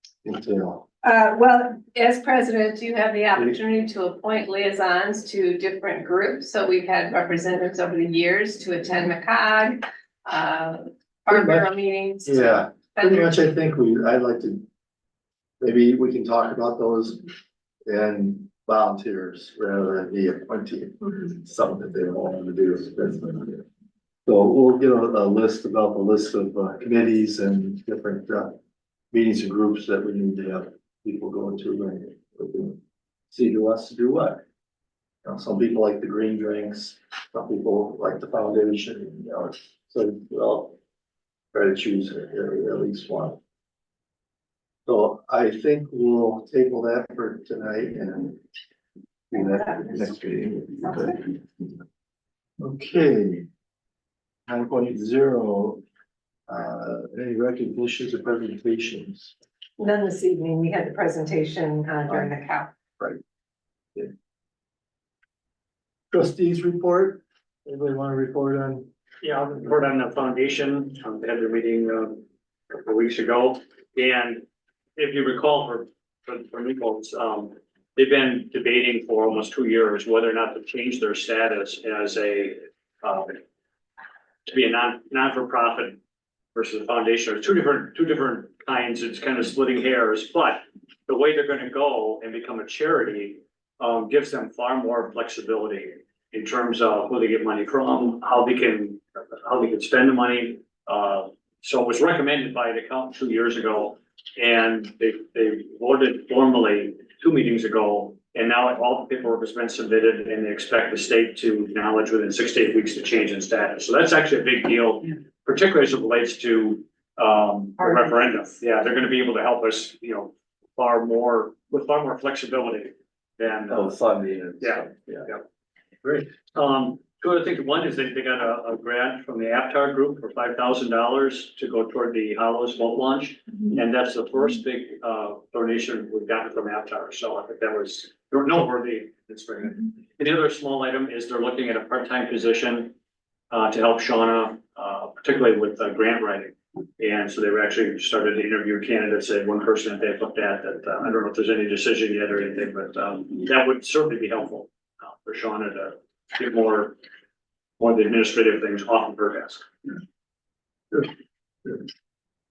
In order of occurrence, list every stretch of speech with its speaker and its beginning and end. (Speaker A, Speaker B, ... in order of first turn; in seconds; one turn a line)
Speaker A: 0.2-0.9
Speaker B: 1.0-13.3
Speaker A: 11.3-11.7
Speaker A: 12.3-14.7
Speaker A: 15.6-17.2
Speaker A: 17.9-23.7
Speaker A: 24.3-28.6
Speaker A: 29.1-32.8
Speaker A: 33.3-34.4
Speaker A: 35.2-40.8
Speaker A: 41.5-43.4
Speaker A: 44.9-48.4
Speaker A: 49.3-51.4
Speaker A: 52.6-53.5
Speaker A: 54.5-55.8
Speaker A: 56.5-59.4
Speaker B: 59.8-62.7
Speaker A: 62.1-62.3
Speaker A: 66.1-68.9
Speaker C: 69.2-74.5
Speaker C: 75.0-83.4
Speaker C: 84.5-86.0
Speaker C: 86.5-124.0
Speaker A: 123.7-125.3
Speaker C: 124.6-125.4
Speaker C: 126.5-142.9
Speaker C: 143.5-157.0
Speaker C: 157.8-159.7